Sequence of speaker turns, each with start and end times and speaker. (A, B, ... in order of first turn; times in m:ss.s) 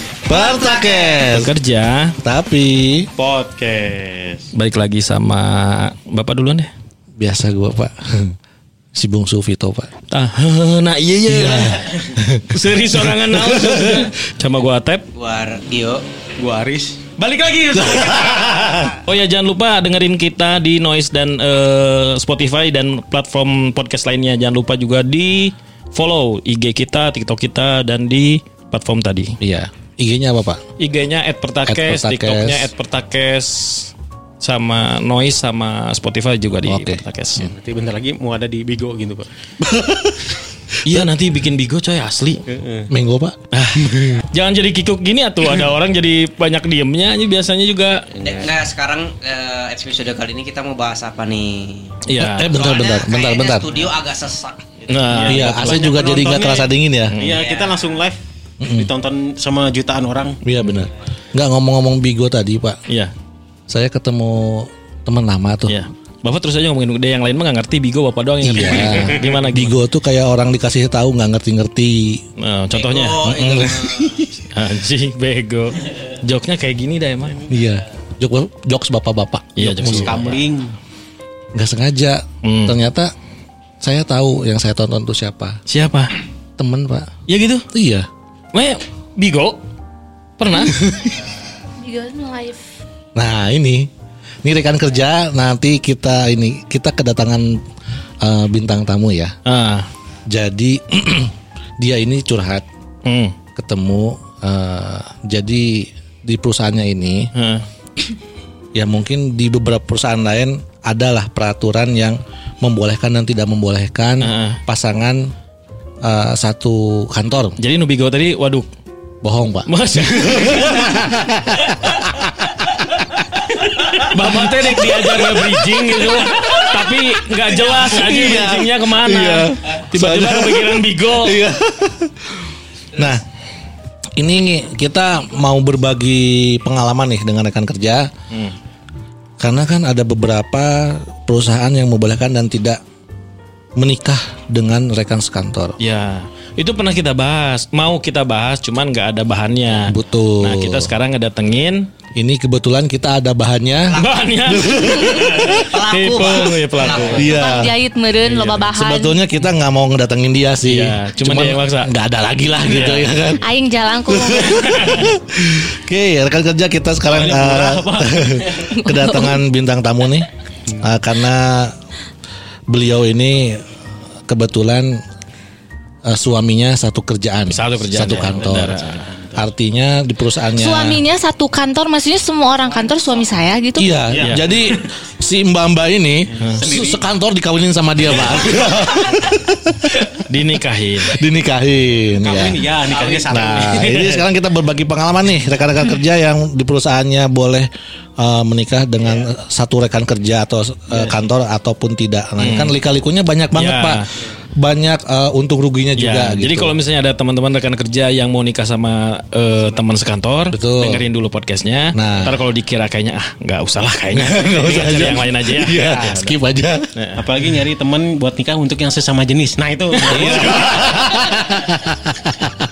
0:00.3-0:01.5 A
0:00.3-0:01.2 B
0:01.3-0:02.2 C
0:02.2-0:03.1 A
0:03.2-0:04.5 D
0:04.6-0:06.7 C
0:07.2-0:08.4 A
0:09.0-0:09.9 A
0:10.1-0:11.9 C
0:11.3-0:14.1 A
0:12.5-0:15.1 C
0:15.2-0:16.0 E
0:16.4-0:17.2 D
0:17.6-0:18.3 C
0:17.7-0:18.9 A
0:17.7-0:19.0 E
0:19.0-0:29.4 C
0:29.4-0:30.6 A
0:30.8-0:37.5 C
0:31.7-0:32.7 A
0:36.7-0:37.0 A
0:37.4-0:39.3 D
0:39.6-0:40.3 A
0:40.8-0:42.4 C
0:42.5-0:42.9 D
0:42.9-0:43.4 A
0:43.5-0:48.1 C
0:48.1-0:48.5 D
0:48.2-0:51.9 E
0:52.1-0:52.6 C
0:52.2-0:53.7 A
0:52.5-0:56.2 E
0:54.9-0:55.8 C
0:55.1-1:00.4 D
0:55.3-0:57.2 A
0:57.1-0:57.4 C
0:57.2-0:58.0 E
0:58.6-0:58.9 A
1:00.4-1:02.8 A
1:03.7-1:05.8 A
1:05.7-1:09.8 C
1:08.4-1:12.2 A
1:12.4-1:13.4 C
1:12.7-1:14.3 E
1:13.2-1:14.3 A
1:14.5-1:17.4 C
1:17.5-1:20.2 A
1:19.6-1:20.3 C
1:19.8-1:20.8 D
1:21.5-1:23.1 A
1:22.4-1:22.8 C
1:23.8-1:25.6 A
1:25.7-1:26.2 C
1:26.6-1:27.1 A
1:27.3-1:27.7 C
1:27.7-1:28.1 A
1:28.5-1:29.6 C
1:30.4-1:31.2 C
1:31.8-1:32.7 B
1:33.2-1:33.9 A
1:34.4-1:37.6 A
1:38.2-1:39.4 A
1:39.4-1:39.9 C
1:40.3-1:42.6 A
1:43.0-1:43.4 C
1:43.6-1:47.3 A
1:47.4-1:47.6 C
1:48.8-1:55.3 A
1:54.2-1:54.6 C
1:56.0-1:57.6 A
1:57.6-1:58.7 C
1:59.2-2:02.5 A
1:59.7-2:01.1 C
2:03.6-2:11.4 C
2:06.2-2:06.5 A
2:07.7-2:12.3 A
2:13.0-2:13.2 A
2:14.2-2:18.1 A
2:19.4-2:22.8 A
2:23.8-2:25.8 A
2:25.8-2:31.9 C
2:29.9-2:30.9 A
2:32.2-2:35.7 A
2:33.9-2:34.6 E
2:34.0-2:37.3 C
2:35.4-2:37.3 E
2:37.0-2:37.8 A
2:37.2-2:39.2 B
2:38.2-2:38.7 C
2:38.7-2:43.4 A
2:40.6-2:41.9 C
2:42.6-2:43.1 C
2:43.4-2:44.8 B
2:44.1-2:50.3 A
2:44.6-2:45.1 C
2:47.1-2:48.2 D
2:48.6-2:49.4 B
2:50.8-2:51.7 A
2:52.7-2:53.6 A
2:54.3-2:55.0 A
2:56.0-2:58.8 A
2:57.5-2:59.1 C
2:58.4-2:59.4 D
2:59.4-3:01.0 A
3:00.6-3:03.9 B
3:02.7-3:03.2 E
3:03.8-3:10.1 A
3:04.1-3:04.9 D
3:04.2-3:04.4 C
3:06.4-3:07.0 D
3:06.4-3:06.6 C
3:10.1-3:11.2 C
3:11.0-3:12.7 A
3:12.2-3:14.2 D
3:12.9-3:13.6 E
3:13.2-3:24.0 A
3:22.4-3:22.8 C
3:23.5-3:24.1 C
3:24.6-3:26.8 A
3:26.0-3:36.4 C
3:30.5-3:31.0 A
3:31.9-3:32.4 A
3:34.1-3:36.9 A
3:37.0-3:37.2 C
3:37.2-3:40.9 D
3:40.1-3:40.8 C
3:40.1-3:42.5 A